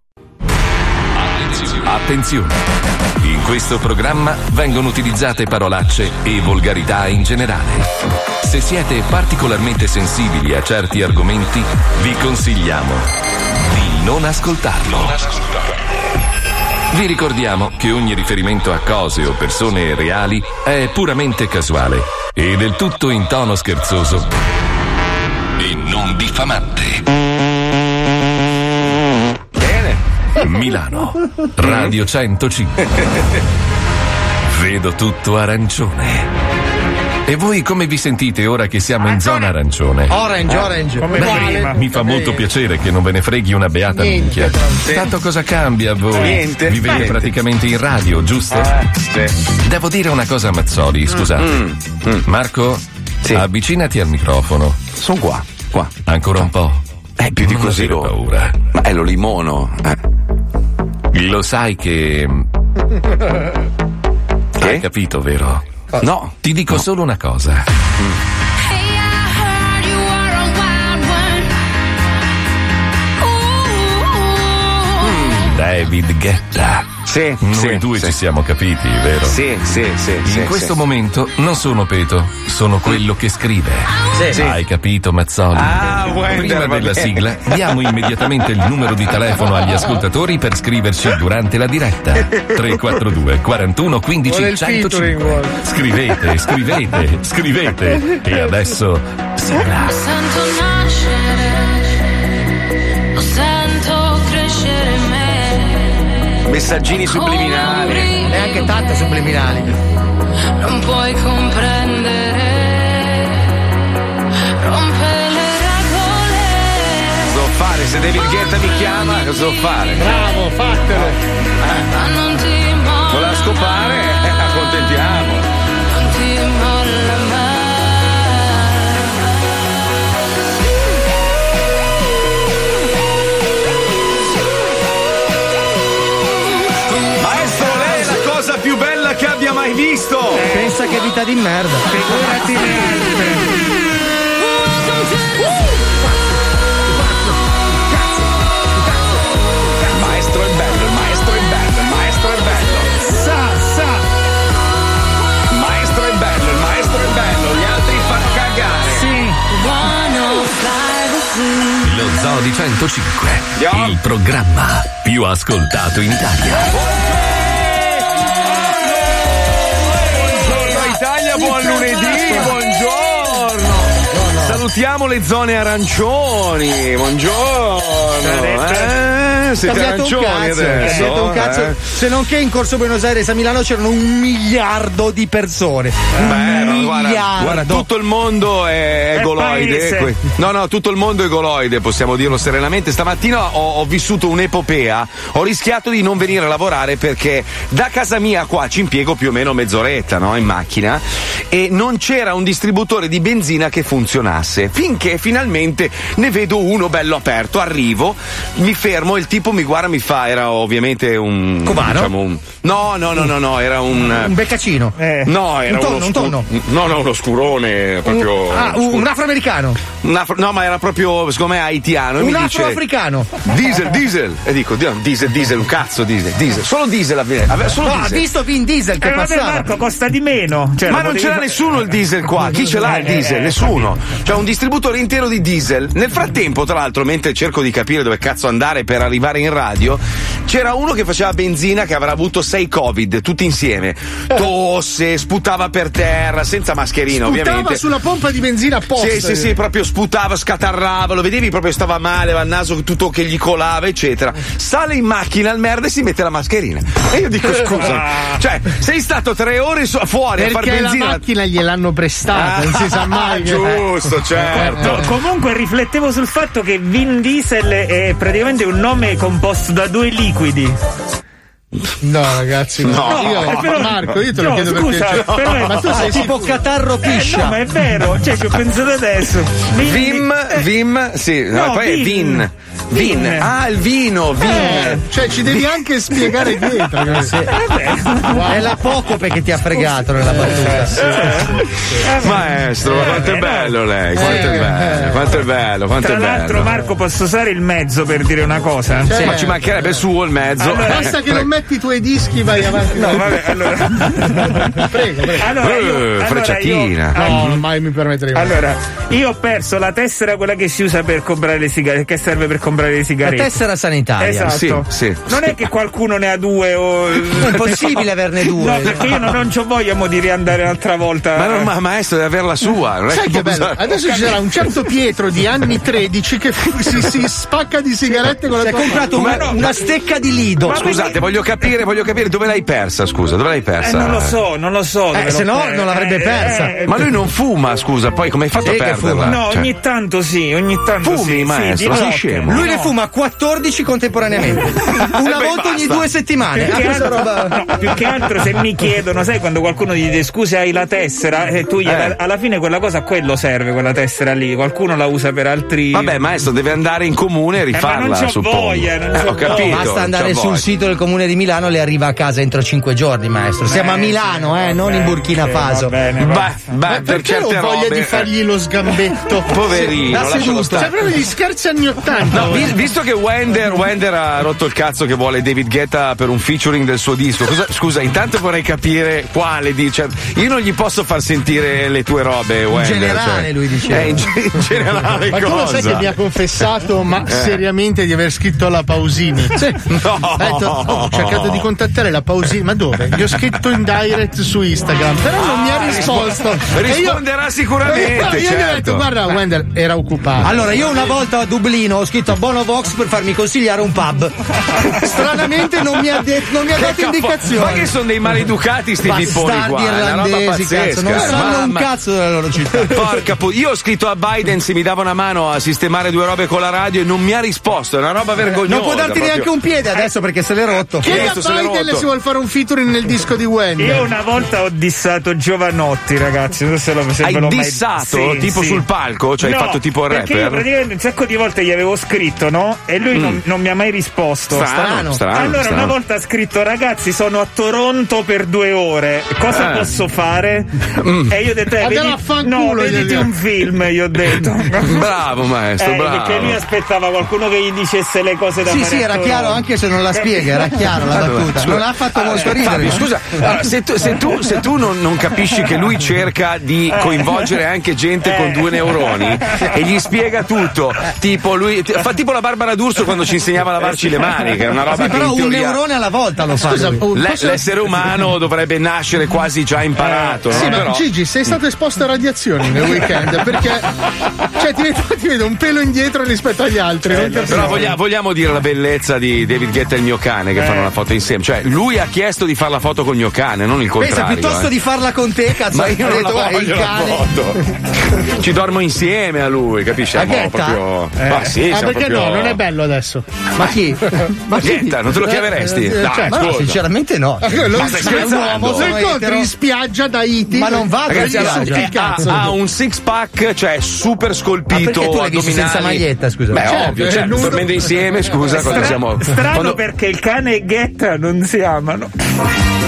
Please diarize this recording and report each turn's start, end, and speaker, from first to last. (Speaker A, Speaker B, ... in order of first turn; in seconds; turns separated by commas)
Speaker A: 1.2-2.6, Speaker A: 3.2-7.9, Speaker A: 8.4-15.3, Speaker A: 16.9-24.3, Speaker A: 25.6-27.0, Speaker B: 29.6-30.0, Speaker A: 30.4-32.8, Speaker B: 31.6-31.9, Speaker A: 34.5-36.3, Speaker A: 37.3-40.1, Speaker C: 39.0-39.4, Speaker D: 40.1-41.4, Speaker E: 41.0-41.8, Speaker C: 41.2-42.4, Speaker A: 41.7-48.7, Speaker C: 43.9-44.8, Speaker B: 46.1-47.3, Speaker B: 48.5-49.4, Speaker A: 49.6-51.6, Speaker B: 51.4-52.2, Speaker A: 52.2-52.8, Speaker A: 53.3-54.8, Speaker B: 55.0-56.5, Speaker A: 56.0-56.8, Speaker B: 57.2-58.1, Speaker A: 57.4-58.5, Speaker B: 58.7-60.0, Speaker A: 61.1-62.5, Speaker B: 64.6-64.8, Speaker A: 64.6-65.6, Speaker B: 66.0-66.4, Speaker A: 66.4-67.7, Speaker F: 68.6-71.5, Speaker F: 73.2-75.1, Speaker B: 75.0-75.5, Speaker A: 75.5-76.9, Speaker B: 77.0-78.1, Speaker A: 77.4-79.4, Speaker B: 79.3-80.8, Speaker A: 80.2-99.9, Speaker B: 84.2-84.6, Speaker B: 85.5-87.2, Speaker C: 94.2-95.5, Speaker F: 99.8-101.9, Speaker F: 103.1-105.8, Speaker B: 106.5-108.1, Speaker F: 107.1-108.7, Speaker D: 108.2-109.8, Speaker F: 110.6-113.4, Speaker F: 114.6-117.4, Speaker B: 117.3-120.2, Speaker C: 120.0-121.2, Speaker B: 121.0-121.8, Speaker F: 121.9-123.8, Speaker B: 123.1-125.5, Speaker F: 125.9-129.0, Speaker B: 137.2-140.4, Speaker E: 140.3-140.8, Speaker D: 140.4-142.0, Speaker E: 141.9-143.5, Speaker B: 149.9-153.0, Speaker B: 155.5-159.1, Speaker F: 158.9-161.8, Speaker A: 161.8-166.7, Speaker B: 163.6-164.0, Speaker B: 166.7-181.8, Speaker D: 171.4-172.5, Speaker D: 173.9-174.6, Speaker E: 178.2-178.9, Speaker D: 179.6-187.9, Speaker B: 186.2-214.3, Speaker E: 189.1-190.1, Speaker D: 211.6-212.1, Speaker D: 214.1-214.9, Speaker E: 215.0-215.3, Speaker B: 215.2-219.1, Speaker D: 215.7-216.4, Speaker D: 218.0-219.8, Speaker B: 220.0-222.8, Speaker D: 222.2-223.3, Speaker B: 223.4-228.2, Speaker D: 227.8-229.7, Speaker E: 229.0-231.7, Speaker B: 230.9-247.8, Speaker E: 232.8-233.9, Speaker C: 247.1-249.6, Speaker B: 249.0-261.2, Speaker E: 257.8-258.4, Speaker C: 260.4-263.9, Speaker B: 262.3-265.1, Speaker E: 264.5-270.8, Speaker C: 264.5-265.0, Speaker C: 272.0-276.5, Speaker B: 272.8-273.8, Speaker E: 273.1-276.4, Speaker D: 275.9-277.6, Speaker E: 277.0-280.6, Speaker B: 279.8-285.7, Speaker E: 281.5-283.5, Speaker C: 284.4-287.3, Speaker D: 287.1-287.5, Speaker E: 287.5-288.6, Speaker C: 288.3-288.6, Speaker D: 288.5-291.5, Speaker E: 290.4-294.3, Speaker B: 292.2-296.7, Speaker C: 294.1-295.2, Speaker E: 296.0-299.4, Speaker C: 299.1-299.7, Speaker B: 299.1-301.5, Speaker E: 300.6-301.1, Speaker C: 300.8-303.3, Speaker E: 302.9-304.7, Speaker C: 304.4-305.4, Speaker E: 305.4-307.6, Speaker B: 305.5-307.6, Speaker C: 307.2-308.6, Speaker E: 308.3-313.5, Speaker D: 313.2-314.6, Speaker E: 314.2-317.9, Speaker B: 314.5-315.5, Speaker D: 317.3-319.1, Speaker B: 317.5-318.0, Speaker E: 318.5-321.7, Speaker B: 318.8-319.2, Speaker B: 321.4-324.4, Speaker C: 323.1-329.1, Speaker D: 328.6-331.0, Speaker B: 329.1-329.6, Speaker B: 330.6-334.3, Speaker E: 330.7-331.1, Speaker E: 333.8-337.1, Speaker D: 335.1-336.8, Speaker B: 336.9-339.7, Speaker D: 338.6-339.3, Speaker E: 339.2-342.9, Speaker B: 341.0-342.6, Speaker D: 342.5-347.6, Speaker B: 345.2-346.1, Speaker E: 346.5-356.2, Speaker B: 351.9-352.1, Speaker B: 355.9-360.6, Speaker E: 357.7-359.8, Speaker D: 359.5-365.9, Speaker E: 363.7-366.5, Speaker B: 366.2-368.3, Speaker C: 366.9-369.9, Speaker B: 369.5-371.0, Speaker D: 369.7-370.9, Speaker C: 370.7-372.7, Speaker B: 372.3-386.1, Speaker D: 382.7-384.2, Speaker C: 385.3-397.2, Speaker B: 387.3-387.6, Speaker B: 389.9-391.7, Speaker B: 395.4-399.1, Speaker C: 397.8-400.6, Speaker D: 400.4-407.9, Speaker B: 406.7-411.9, Speaker D: 409.0-413.1, Speaker B: 412.9-419.5, Speaker D: 418.6-421.3, Speaker C: 421.0-424.1, Speaker B: 421.0-422.1, Speaker E: 423.8-428.8, Speaker B: 427.2-430.6, Speaker E: 429.4-440.7, Speaker B: 433.1-433.4, Speaker B: 434.5-435.9, Speaker D: 434.5-435.2, Speaker B: 439.5-439.9, Speaker B: 441.0-441.3, Speaker E: 441.3-445.1, Speaker C: 441.8-443.3, Speaker B: 444.8-446.6, Speaker E: 445.8-450.9, Speaker D: 448.6-453.1, Speaker B: 451.1-465.8, Speaker E: 457.0-457.4, Speaker E: 458.2-459.6, Speaker D: 464.9-467.0, Speaker C: 466.6-467.6, Speaker B: 467.1-471.5, Speaker C: 470.5-473.9, Speaker C: 474.6-477.9, Speaker B: 477.1-484.7, Speaker E: 480.6-480.9, Speaker D: 483.9-487.3, Speaker B: 485.7-487.6, Speaker B: 488.1-492.6, Speaker D: 490.1-490.8, Speaker C: 491.4-493.3, Speaker D: 493.6-499.5, Speaker B: 494.6-496.8, Speaker C: 495.7-496.3, Speaker C: 497.4-502.6, Speaker B: 497.7-498.9, Speaker D: 500.5-501.9, Speaker B: 501.1-509.8, Speaker D: 504.7-506.7, Speaker C: 506.6-508.6, Speaker E: 508.5-512.1